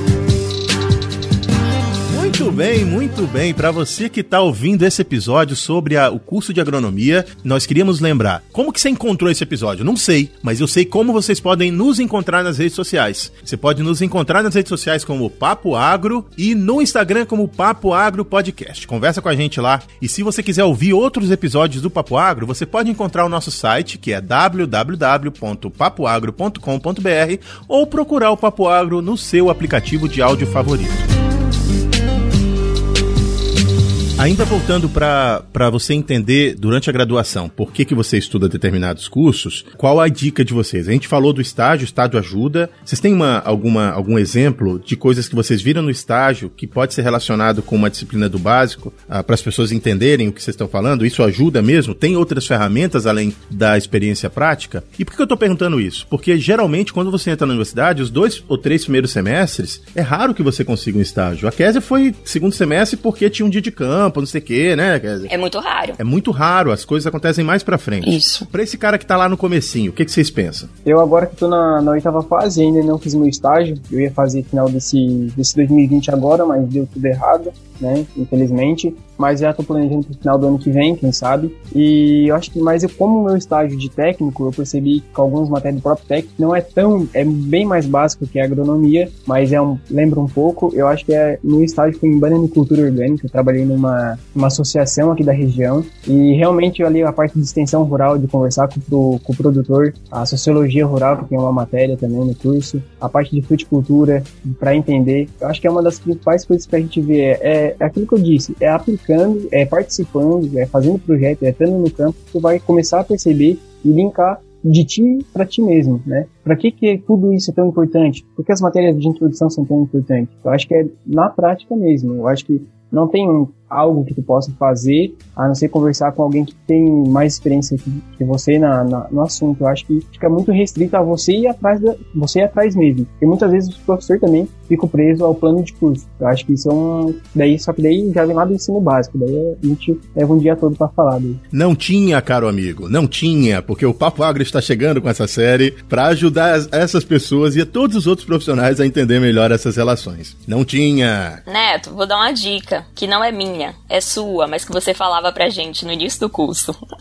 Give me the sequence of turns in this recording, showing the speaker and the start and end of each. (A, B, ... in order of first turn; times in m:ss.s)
0:02.1-0:31.0 A
0:34.2-1:05.3 A
1:05.3-1:06.0 B
1:06.0-1:10.7 A
1:08.0-1:08.5 B
1:10.8-2:21.4 C
2:21.5-2:31.4 A
2:31.5-2:36.8 B